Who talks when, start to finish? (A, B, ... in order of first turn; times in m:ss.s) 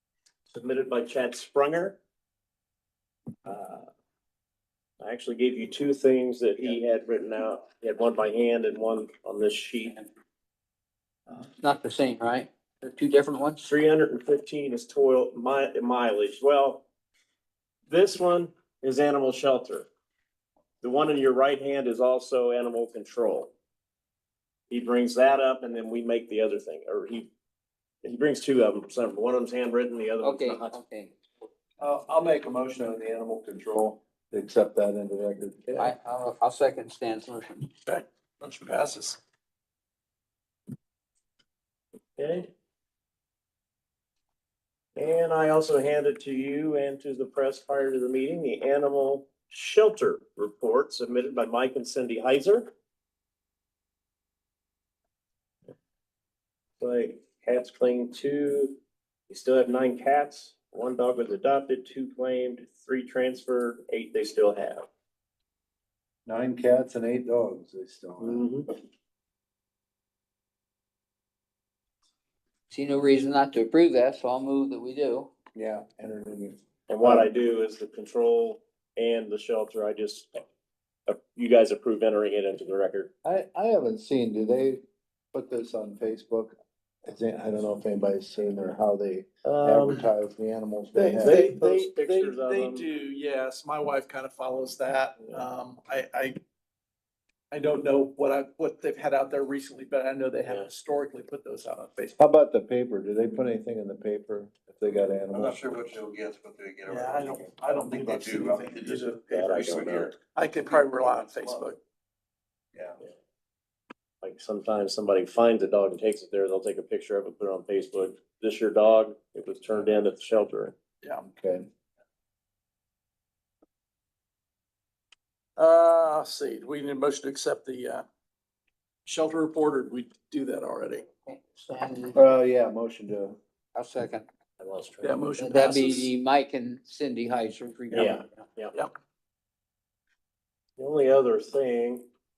0:00.5-0:02.0 A
0:03.4-0:03.9 A
0:05.0-0:10.0 A
0:11.6-0:13.7 B
0:13.6-0:16.8 A
0:17.9-0:19.9 A
0:20.8-0:23.5 A
0:24.7-0:27.3 A
0:28.0-0:30.8 A
0:30.2-0:31.1 B
0:31.8-0:35.7 C
0:35.8-0:37.7 B
0:37.8-0:39.2 D
0:42.2-0:42.5 A
0:45.0-0:52.7 A
0:56.8-0:58.8 A
0:59.3-1:04.9 A
1:06.2-1:08.8 C
1:08.2-1:08.7 A
1:12.7-1:15.3 B
1:15.5-1:17.3 C
1:16.9-1:20.4 A
1:21.1-1:23.1 A
1:23.2-1:24.8 C
1:25.3-1:31.5 C
1:29.4-1:30.0 A
1:30.9-1:36.4 D
1:31.2-1:32.9 A
1:37.5-1:42.2 D
1:42.2-1:46.1 C
1:46.0-1:47.3 E
1:46.8-1:51.8 D
1:48.0-1:48.9 E
1:49.3-1:50.1 A
1:54.2-2:00.7 A
2:01.2-2:01.6 C
2:05.6-2:08.0 D
2:09.0-2:11.0 D
2:11.2-2:12.2 B
2:12.1-2:13.4 C
2:13.7-2:14.2 B
2:14.6-2:15.3 A
2:15.0-2:16.1 D
2:15.4-2:18.4 B
2:17.9-2:18.8 A
2:20.8-2:22.0 A